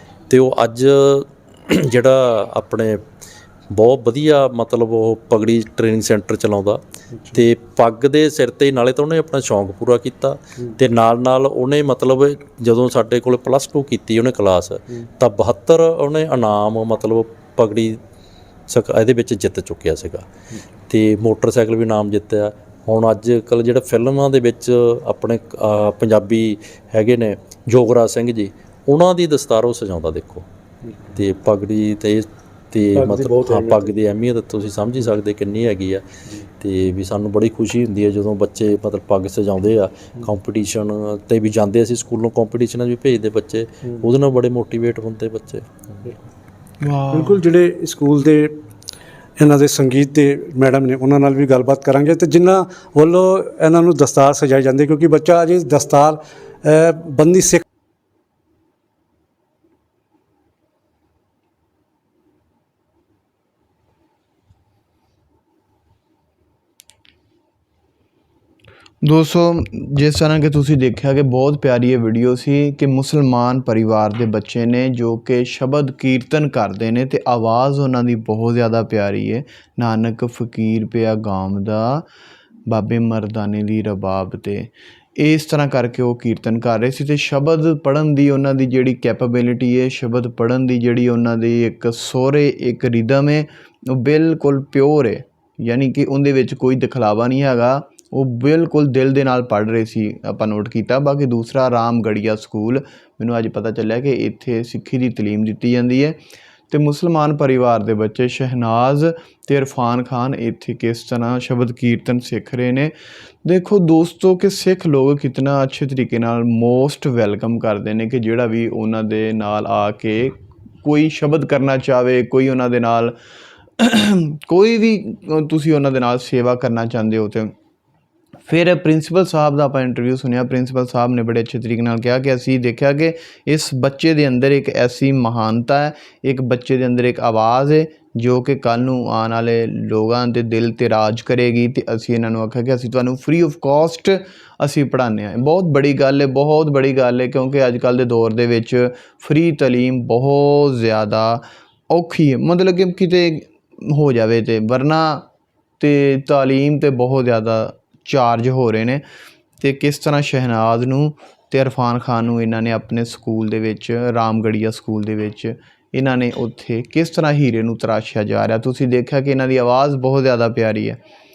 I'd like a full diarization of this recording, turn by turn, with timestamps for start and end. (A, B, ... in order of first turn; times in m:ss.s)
0:00.3-0:03.0 A
0:03.7-0:18.0 A
0:07.2-0:07.4 B
0:18.7-0:20.3 A
0:20.9-0:30.4 A
0:30.8-0:31.2 B
0:31.2-0:45.7 A
0:32.9-0:33.9 B
0:46.8-0:47.3 C
0:47.0-0:48.6 B
0:49.4-0:57.6 B
1:09.0-1:22.0 C
1:22.7-1:46.2 C
1:46.7-1:52.9 C
1:53.4-2:03.1 C
2:03.8-2:07.5 C
2:08.4-2:35.3 C
2:35.8-2:39.0 C
2:39.6-2:51.0 C